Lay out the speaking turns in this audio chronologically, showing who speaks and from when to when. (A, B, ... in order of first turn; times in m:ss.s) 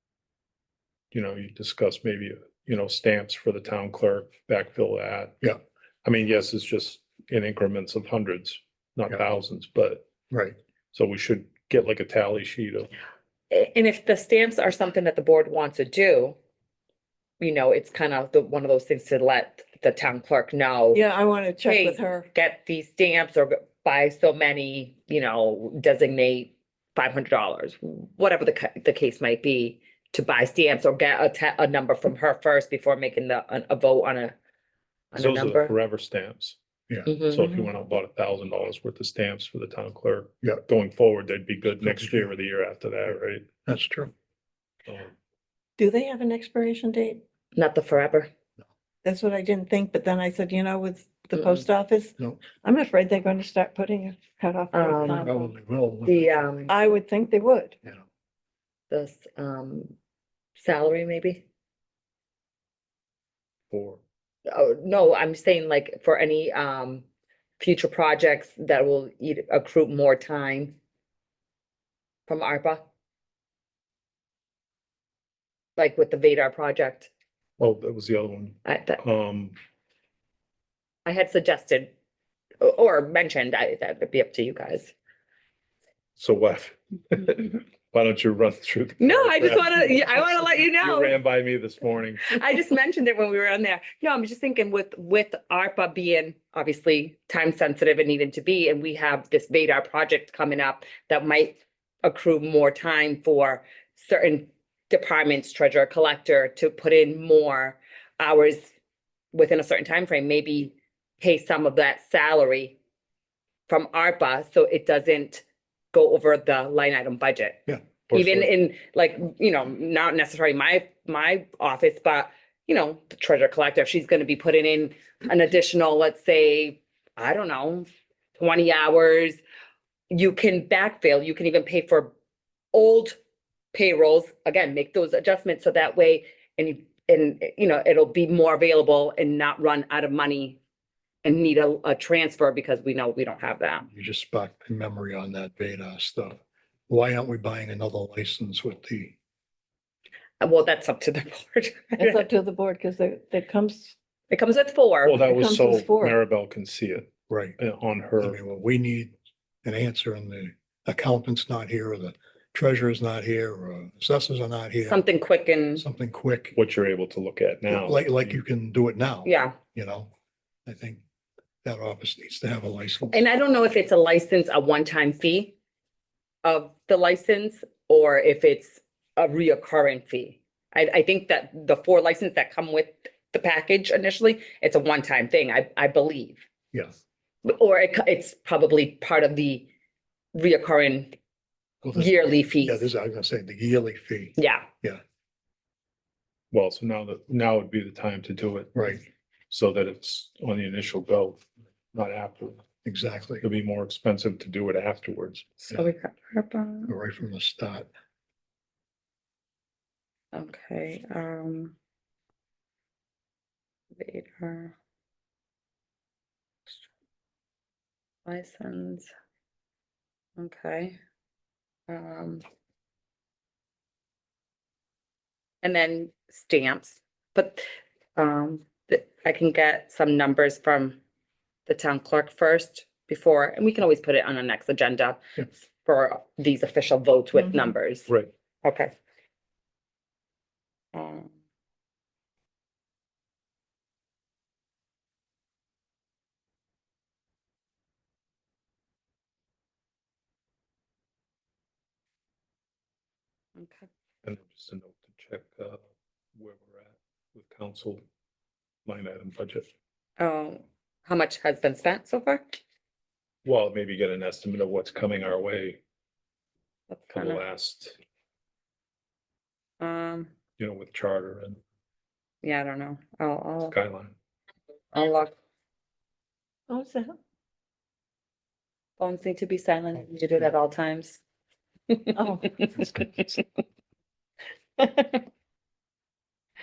0:01.1-0:05.5 A
0:06.0-0:10.1 A
0:10.3-0:10.6 B
0:10.9-0:12.9 A
0:13.5-0:16.4 C
0:17.4-0:21.0 C
0:20.9-0:22.3 D
0:21.6-0:34.4 C
0:35.1-0:35.8 C
0:35.2-0:36.6 A
0:37.1-0:37.5 C
0:37.3-0:43.4 A
0:41.8-0:42.3 B
0:43.7-0:44.1 B
0:44.9-0:45.1 A
0:45.8-0:47.2 D
0:47.6-0:48.3 C
0:49.0-0:55.5 D
0:51.3-0:51.6 C
0:54.7-0:55.3 C
0:54.9-0:56.5 B
0:56.1-0:56.8 C
0:56.7-0:57.8 D
0:58.9-0:59.9 C
1:00.6-1:01.4 C
1:03.7-1:04.0 A
1:04.5-1:07.1 C
1:07.6-1:10.7 C
1:12.3-1:12.8 C
1:15.8-1:17.1 C
1:17.6-1:19.6 A
1:18.6-1:19.0 C
1:21.0-1:21.9 C
1:22.6-1:24.9 C
1:26.2-1:32.4 A
1:29.0-1:31.2 C
1:32.3-1:48.7 C
1:49.3-1:52.8 C
1:53.7-2:09.4 C
1:58.1-1:58.5 A
2:10.1-2:12.1 C
2:12.7-2:13.2 C
2:13.7-2:20.6 C
2:21.2-2:23.9 C
2:23.9-2:26.4 B
2:26.9-2:29.2 B
2:30.4-2:32.2 C
2:32.0-2:34.0 D
2:34.3-2:35.2 C
2:35.0-2:38.4 A
2:35.2-2:36.2 D
2:37.3-2:37.6 B
2:38.2-2:45.0 B
2:44.9-2:45.8 C
2:45.8-2:46.6 B
2:46.5-2:48.4 A
2:47.7-2:50.1 B
2:49.2-2:49.6 C
2:50.7-2:51.0 B
2:51.6-2:53.2 B
2:53.1-2:55.5 C
2:56.4-3:06.4 C
3:07.4-3:09.7 C
3:10.3-3:11.1 C
3:11.8-3:15.0 B
3:12.0-3:12.9 C
3:14.4-3:14.7 C
3:16.5-3:18.9 A
3:18.8-3:19.0 B
3:19.5-3:22.6 A
3:22.8-3:23.4 B
3:23.4-3:25.7 A
3:25.7-3:26.9 C
3:26.9-3:27.9 B
3:30.3-3:31.8 C
3:34.0-3:34.8 C
3:38.3-3:39.1 C
3:40.4-3:41.0 C
3:41.9-3:42.4 C
3:45.6-3:47.6 C
3:48.2-3:51.0 C
3:51.7-3:58.1 C
3:58.6-3:58.9 C
4:00.9-4:01.3 C
4:13.6-4:13.9 C
4:14.2-4:15.8 A
4:16.4-4:18.0 A
4:18.8-4:19.7 A
4:20.2-4:22.4 C
4:23.4-4:25.8 A
4:26.9-4:27.4 C
4:27.1-4:28.0 A
4:29.8-4:30.3 C
4:30.6-4:31.6 A
4:32.4-4:33.8 C
4:33.7-4:34.1 A
4:34.9-4:35.3 C
4:36.7-4:37.2 D
4:39.0-4:41.2 C
4:41.9-4:42.2 C
4:42.2-4:42.6 D
4:42.6-4:43.4 A
4:44.8-4:45.2 C